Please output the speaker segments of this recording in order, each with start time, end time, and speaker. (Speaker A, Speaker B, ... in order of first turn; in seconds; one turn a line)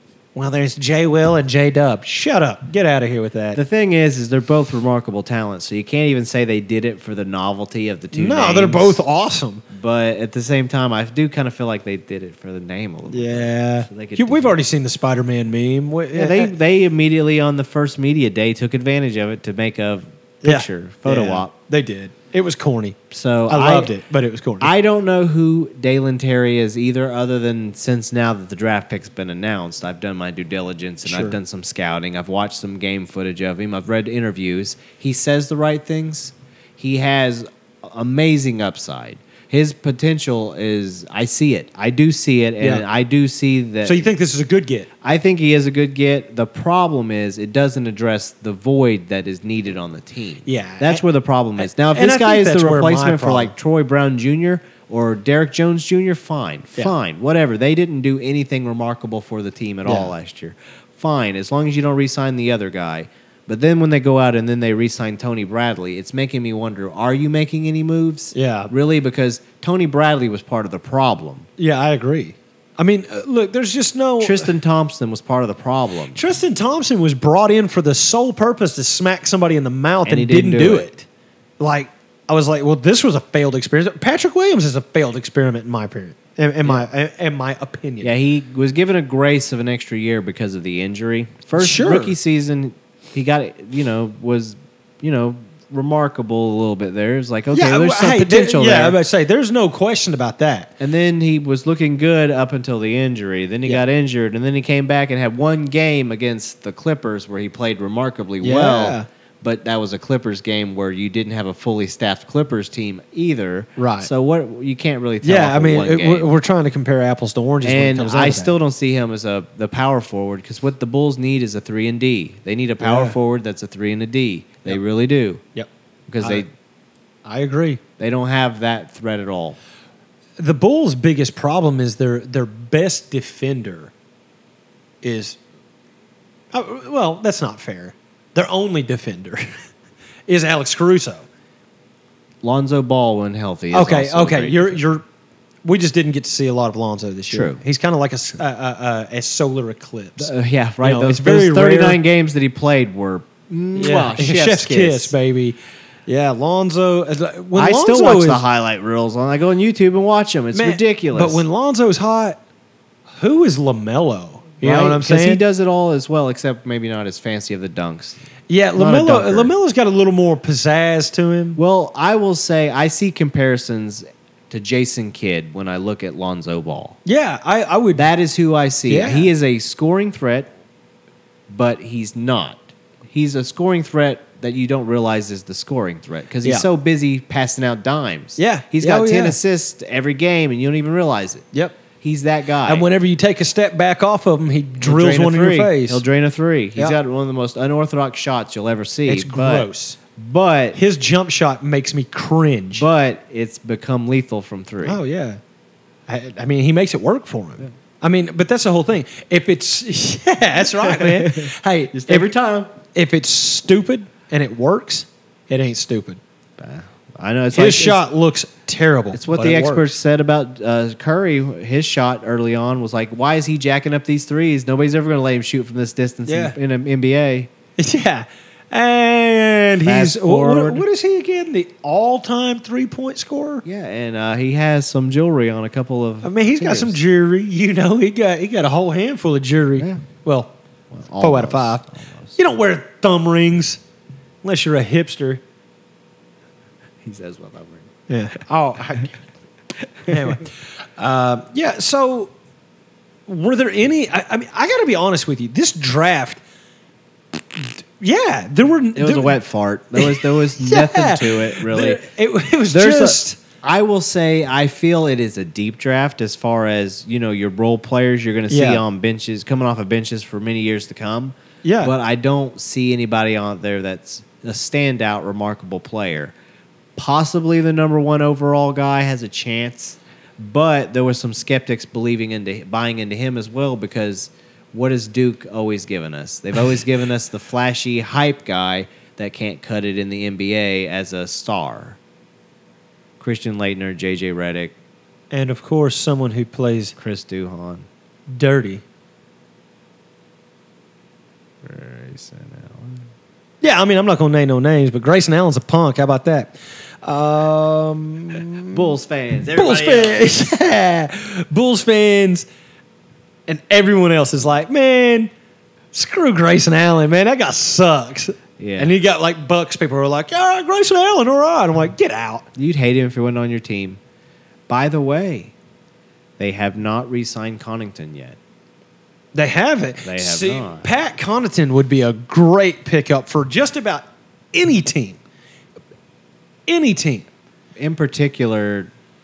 Speaker A: 0.3-3.6
Speaker B: 3.5-9.0
Speaker A: 8.1-9.6
Speaker B: 9.7-14.6
Speaker A: 13.1-16.5
Speaker B: 16.1-21.5
Speaker A: 20.4-23.0
Speaker B: 23.1-23.9
Speaker A: 23.5-24.7
Speaker B: 24.6-44.1
Speaker A: 31.0-31.4
Speaker A: 43.8-44.9
Speaker B: 45.0-71.5
Speaker A: 50.4-51.0
Speaker A: 51.8-53.5
Speaker A: 59.9-60.1
Speaker A: 68.3-68.7
Speaker A: 71.6-74.5
Speaker B: 74.2-76.2
Speaker A: 76.1-81.0
Speaker B: 80.0-80.9
Speaker A: 81.6-88.1
Speaker B: 88.0-99.0
Speaker A: 91.6-92.1
Speaker A: 97.5-100.7
Speaker B: 100.8-116.3
Speaker A: 108.4-109.1
Speaker A: 113.8-114.1
Speaker A: 115.2-118.5
Speaker B: 117.6-125.4
Speaker A: 122.8-123.2
Speaker B: 126.1-126.5
Speaker A: 127.2-127.8
Speaker B: 128.0-129.6
Speaker A: 130.4-133.9
Speaker A: 135.0-135.4
Speaker A: 136.5-139.5
Speaker A: 140.3-141.2
Speaker B: 142.4-144.8
Speaker A: 143.7-145.0
Speaker A: 145.6-152.0
Speaker B: 147.3-147.6
Speaker B: 150.2-155.1
Speaker A: 153.7-158.4
Speaker B: 157.5-161.4
Speaker A: 160.5-162.4
Speaker A: 163.2-165.4
Speaker B: 164.6-168.2
Speaker A: 168.5-171.6
Speaker B: 168.8-169.5
Speaker B: 171.6-177.0
Speaker A: 177.0-178.0
Speaker B: 177.9-180.5
Speaker A: 178.9-179.3
Speaker B: 181.5-191.4
Speaker A: 188.4-189.3
Speaker A: 191.5-191.8
Speaker B: 192.0-192.8
Speaker A: 192.6-196.0
Speaker B: 194.8-200.8
Speaker A: 199.1-200.0
Speaker A: 200.7-202.8
Speaker B: 202.8-205.0
Speaker A: 204.8-205.4
Speaker A: 206.1-212.3
Speaker B: 210.8-212.7
Speaker A: 212.9-216.2
Speaker B: 216.6-218.0
Speaker A: 217.5-219.9
Speaker B: 219.1-227.5
Speaker A: 226.2-226.6
Speaker A: 227.8-233.6
Speaker B: 229.8-230.8
Speaker B: 233.6-237.0
Speaker A: 236.2-240.5
Speaker B: 239.8-240.0
Speaker B: 240.9-242.3
Speaker A: 241.2-241.8
Speaker A: 242.3-243.8
Speaker A: 244.4-245.4
Speaker B: 247.0-247.9
Speaker A: 248.1-249.2
Speaker A: 250.1-252.3
Speaker A: 253.3-256.4
Speaker A: 257.3-259.4
Speaker B: 258.9-262.0
Speaker A: 259.9-263.4
Speaker B: 262.7-276.3
Speaker A: 268.5-268.8
Speaker A: 271.6-271.9
Speaker B: 277.0-292.0
Speaker B: 293.2-294.7
Speaker A: 295.3-296.9
Speaker B: 297.0-297.9
Speaker A: 298.3-298.8
Speaker B: 301.6-303.1
Speaker A: 303.6-308.9
Speaker B: 308.7-310.3
Speaker A: 309.6-312.5
Speaker A: 313.5-315.3
Speaker A: 315.9-322.4
Speaker B: 318.6-318.9
Speaker B: 322.6-324.0
Speaker B: 324.7-325.5
Speaker B: 326.4-328.4
Speaker A: 329.3-335.2
Speaker B: 330.0-330.9
Speaker A: 336.7-337.3
Speaker B: 337.8-338.9